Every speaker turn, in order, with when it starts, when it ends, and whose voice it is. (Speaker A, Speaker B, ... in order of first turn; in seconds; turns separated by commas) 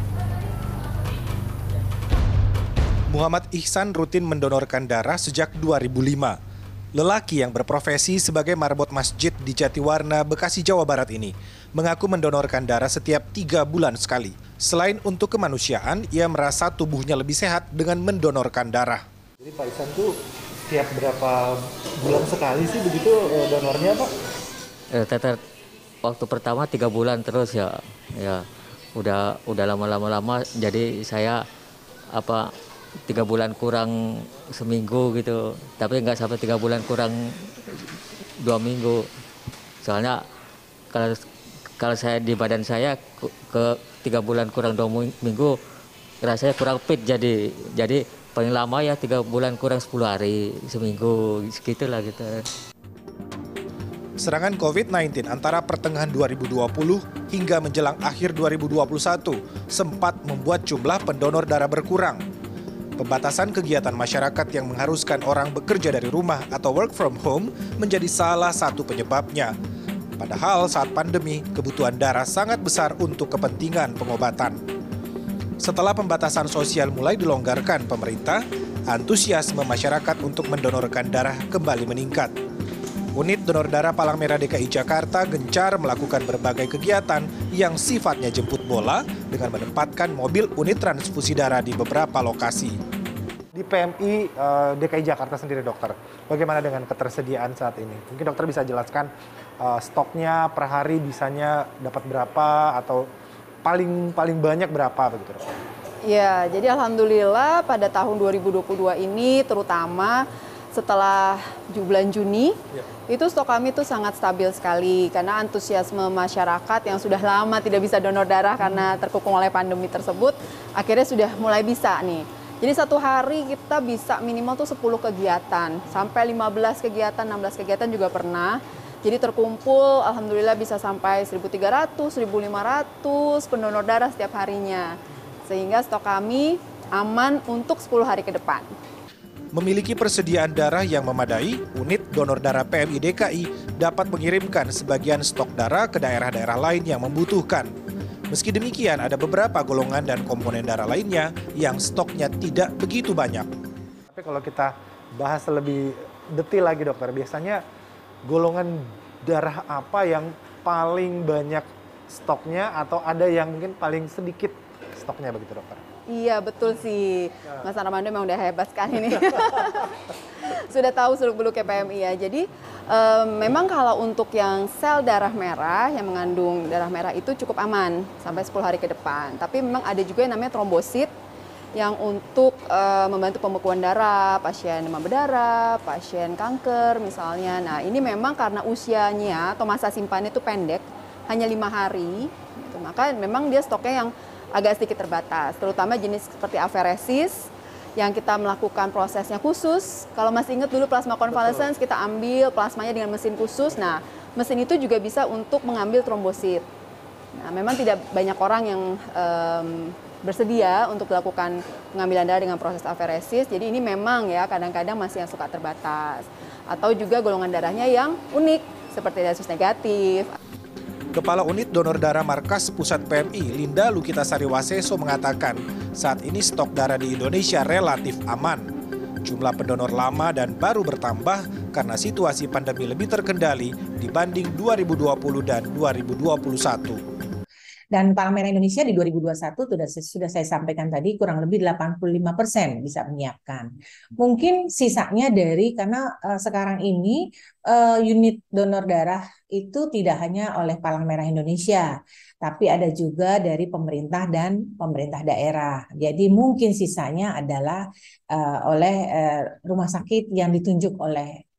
Speaker A: 3.1-6.4, Speaker A: 6.9-19.0, Speaker B: 19.4-20.1, Speaker B: 20.7-24.1, Speaker C: 26.1-27.6, Speaker C: 29.0-31.3, Speaker C: 33.1-33.8, Speaker C: 34.6-35.3, Speaker C: 35.8-37.1, Speaker C: 38.5-38.9, Speaker C: 41.8-42.9, Speaker C: 44.1-45.5, Speaker C: 46.3-47.3, Speaker C: 47.8-51.1, Speaker C: 51.7-52.2, Speaker A: 54.2-62.2, Speaker A: 63.0-69.5, Speaker A: 70.2-74.6, Speaker A: 75.6-82.3, Speaker A: 83.2-92.8, Speaker B: 93.6-95.5, Speaker A: 93.6-96.4, Speaker B: 96.4-99.1, Speaker A: 97.0-98.9, Speaker B: 99.6-103.0, Speaker A: 101.8-102.1, Speaker B: 103.7-105.4, Speaker A: 103.7-104.6, Speaker D: 106.0-112.6, Speaker D: 113.1-134.9, Speaker D: 135.5-138.7, Speaker A: 139.5-147.7, Speaker A: 148.3-153.5, Speaker B: 154.1-157.6, Speaker A: 156.9-157.4, Speaker B: 158.2-164.6, Speaker A: 159.6-160.2, Speaker A: 161.2-161.6, Speaker A: 163.2-164.5, Speaker A: 165.0-165.8, Speaker B: 165.4-165.8, Speaker D: 166.1-181.1, Speaker D: 181.8-206.7, Speaker D: 207.4-220.3, Speaker A: 221.1-228.7, Speaker A: 229.2-237.0, Speaker E: 237.9-251.9, Speaker E: 252.4-261.4